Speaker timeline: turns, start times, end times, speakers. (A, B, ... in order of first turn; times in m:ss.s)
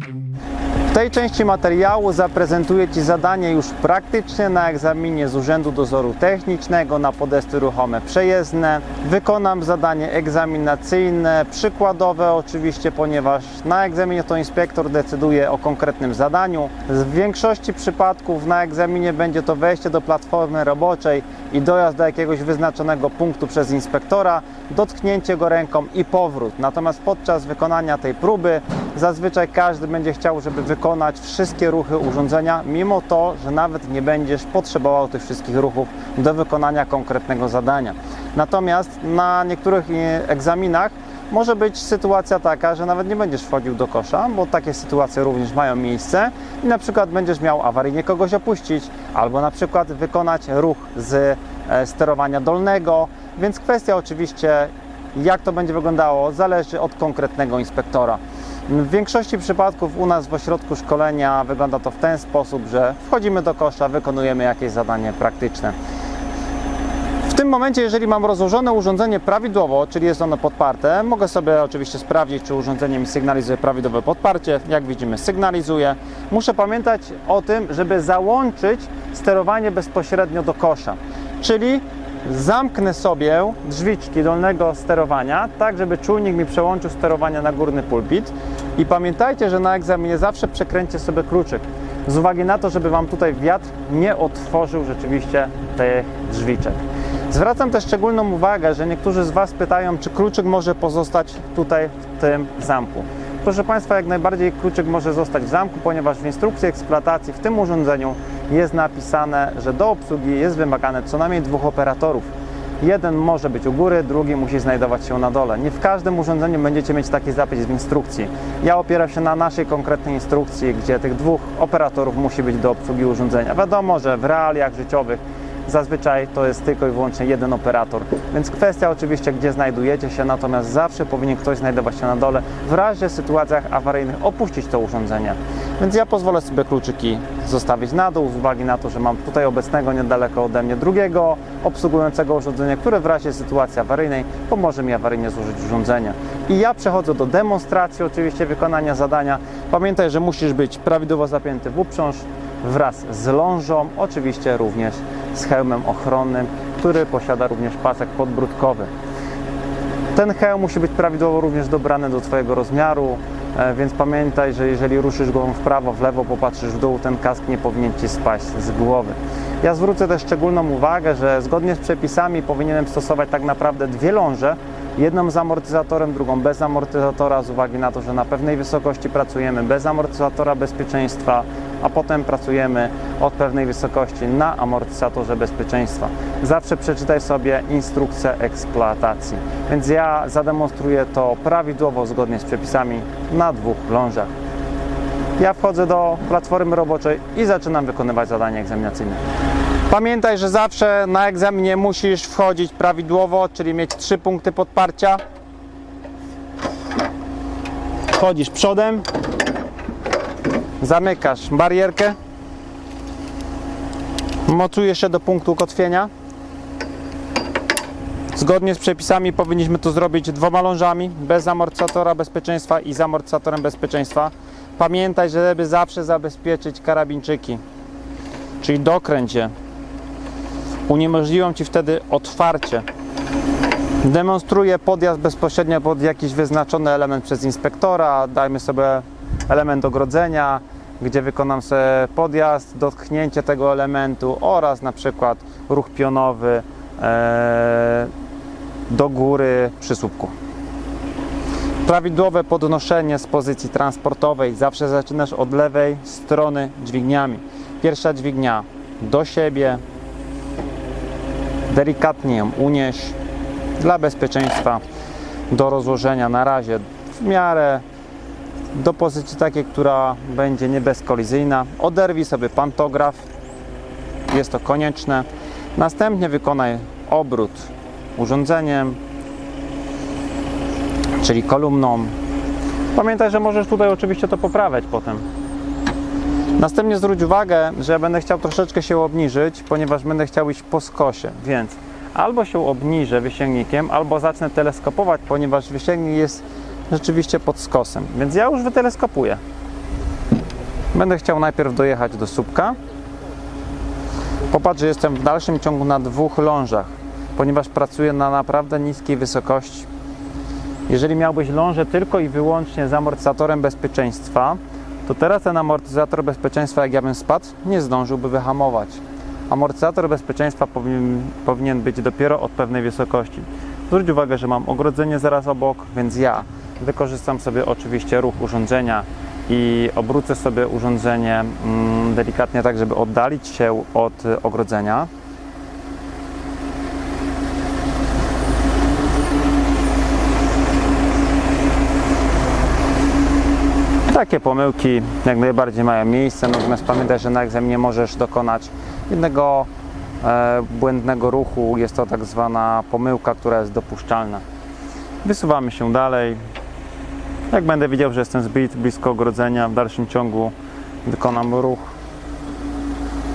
0:00.9-1:05.8 A
1:07.2-1:52.3 A
1:52.8-2:38.9 A
2:40.1-3:14.3 A
3:15.4-3:19.2 A
3:19.9-3:25.2 A
3:28.1-3:29.1 A
3:30.8-3:32.2 A
3:34.5-3:36.1 A
3:38.4-3:47.6 A
3:48.6-3:49.5 A
3:50.9-3:52.9 A
3:54.0-4:08.1 A
4:08.9-4:10.3 A
4:11.8-4:19.8 A
4:21.7-4:23.2 A
4:23.8-4:24.8 A
4:25.5-4:27.8 A
4:28.7-4:33.2 A
4:34.3-4:39.0 A
4:41.2-4:42.1 A
4:43.0-4:45.2 A
4:46.6-4:59.4 A
5:00.9-5:02.8 A
5:04.5-5:09.9 A
5:10.9-5:35.1 A
5:44.1-5:49.7 A
5:50.2-5:54.4 A
5:55.2-5:56.4 A
5:57.5-6:00.5 A
6:01.0-6:01.9 A